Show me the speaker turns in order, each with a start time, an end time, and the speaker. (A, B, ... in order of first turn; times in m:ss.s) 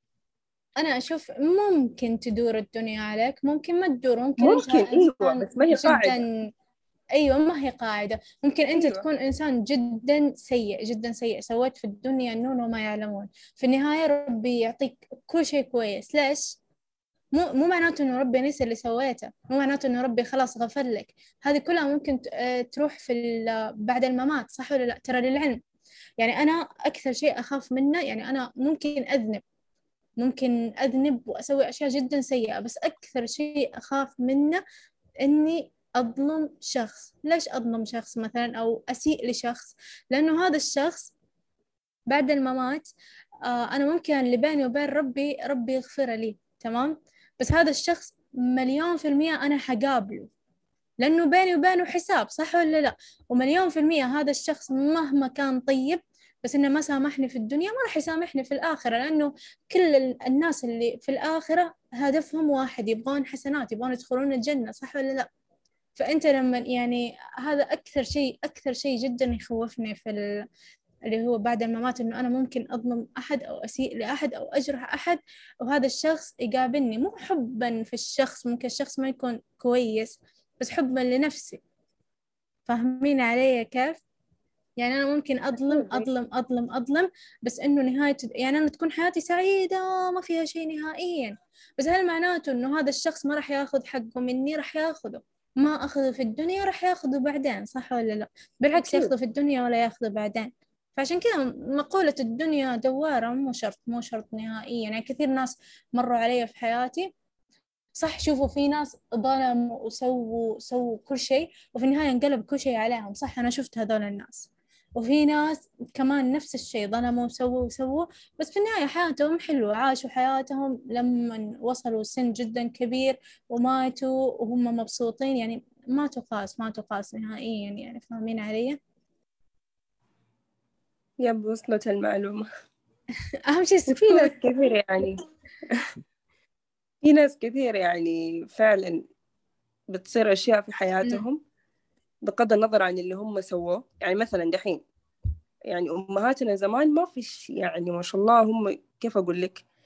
0:00.8-0:06.3 A
0:04.4-0:06.2 B
0:07.2-0:16.6 A
0:08.7-0:09.1 B
0:17.3-0:25.6 A
0:26.2-0:29.4 A
0:30.2-0:34.6 A
0:35.2-0:41.1 A
0:42.1-0:42.9 A
0:43.5-0:50.3 A
0:51.0-1:05.3 A
1:06.0-1:10.4 A
1:11.1-1:21.6 A
1:22.7-1:24.0 A
1:24.8-1:47.1 A
1:25.6-1:26.1 B
1:38.7-1:39.1 B
1:48.0-2:08.8 A
2:11.2-2:12.5 B
2:13.5-2:14.3 A
2:13.9-2:15.9 B
2:17.0-2:19.0 B
2:19.9-2:21.4 B
2:22.2-2:24.8 B
2:25.7-2:29.6 B